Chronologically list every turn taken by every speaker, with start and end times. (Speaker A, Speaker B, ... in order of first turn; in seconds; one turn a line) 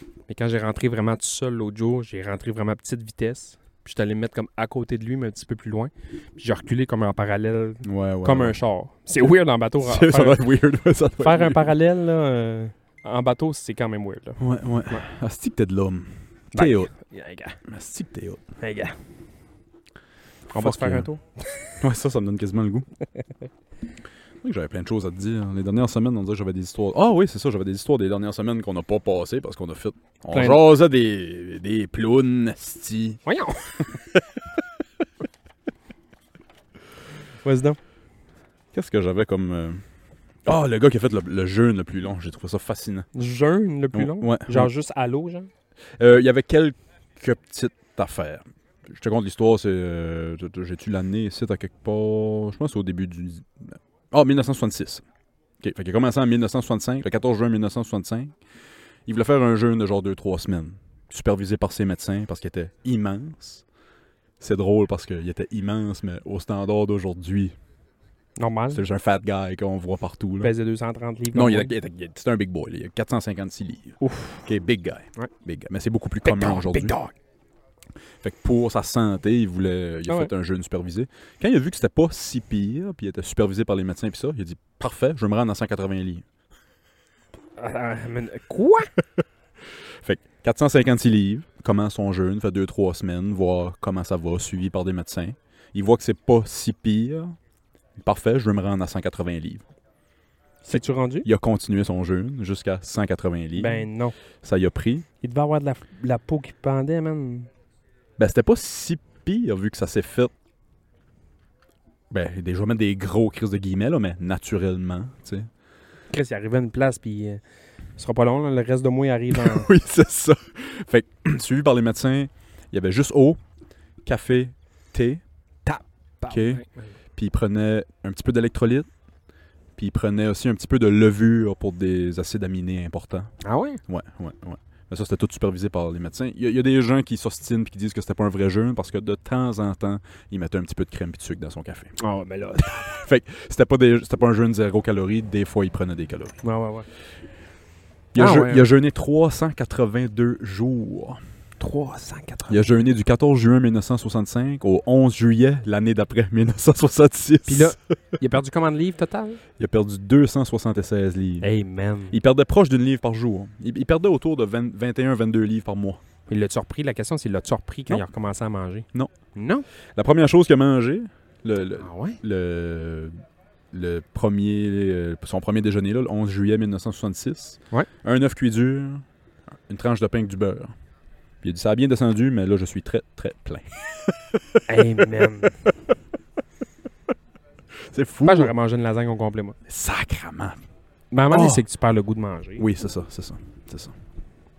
Speaker A: 0.3-10.4
Speaker B: 7.8-8.6
Speaker B: 9.8-11.7
Speaker A: 11.2-15.0
Speaker B: 14.4-16.9
Speaker A: 16.5-17.6
Speaker B: 17.7-18.4
Speaker A: 18.6-19.0
Speaker B: 20.5-21.1
Speaker A: 20.5-21.8
Speaker B: 21.8-22.9
Speaker B: 24.4-33.2
Speaker A: 30.3-30.6
Speaker A: 33.2-33.9
Speaker A: 37.4-37.8
Speaker B: 38.7-39.8
Speaker B: 40.5-43.1
Speaker A: 43.1-45.5
Speaker B: 43.9-44.7
Speaker B: 46.0-55.0
Speaker B: 55.6-58.3
Speaker B: 59.1-63.6
Speaker B: 64.4-67.6
Speaker A: 68.4-68.8
Speaker B: 68.7-70.5
Speaker A: 70.4-71.7
Speaker B: 71.3-77.0
Speaker A: 74.0-74.4
Speaker A: 76.2-77.1
Speaker B: 78.2-86.2
Speaker A: 87.6-88.9
Speaker B: 90.0-97.4
Speaker B: 98.0-99.7
Speaker A: 100.6-101.3
Speaker B: 100.7-103.9
Speaker A: 103.6-104.2
Speaker B: 104.4-105.1
Speaker A: 105.2-107.5
Speaker B: 108.2-110.3
Speaker B: 112.1-115.5
Speaker A: 116.1-117.4
Speaker A: 118.0-119.7
Speaker B: 119.3-123.4
Speaker B: 124.0-125.2
Speaker A: 125.7-126.9
Speaker B: 126.3-126.6
Speaker B: 127.2-128.9
Speaker B: 129.8-133.3
Speaker A: 133.4-133.8
Speaker B: 133.9-141.9
Speaker A: 142.0-143.0
Speaker B: 142.6-146.3
Speaker A: 146.4-146.9
Speaker B: 148.1-151.2
Speaker A: 148.2-148.7
Speaker A: 151.6-152.7
Speaker B: 152.5-157.9
Speaker A: 157.5-159.4
Speaker B: 159.6-161.5
Speaker A: 161.4-162.2
Speaker B: 162.1-166.0
Speaker A: 166.3-169.7
Speaker B: 170.0-173.2
Speaker A: 171.8-172.2
Speaker B: 173.7-179.1
Speaker B: 179.7-180.7
Speaker B: 181.4-185.1
Speaker A: 184.7-185.6
Speaker B: 187.9-188.5
Speaker A: 188.2-189.6
Speaker B: 189.7-190.6
Speaker A: 191.1-192.7
Speaker B: 191.3-191.6
Speaker B: 192.6-193.9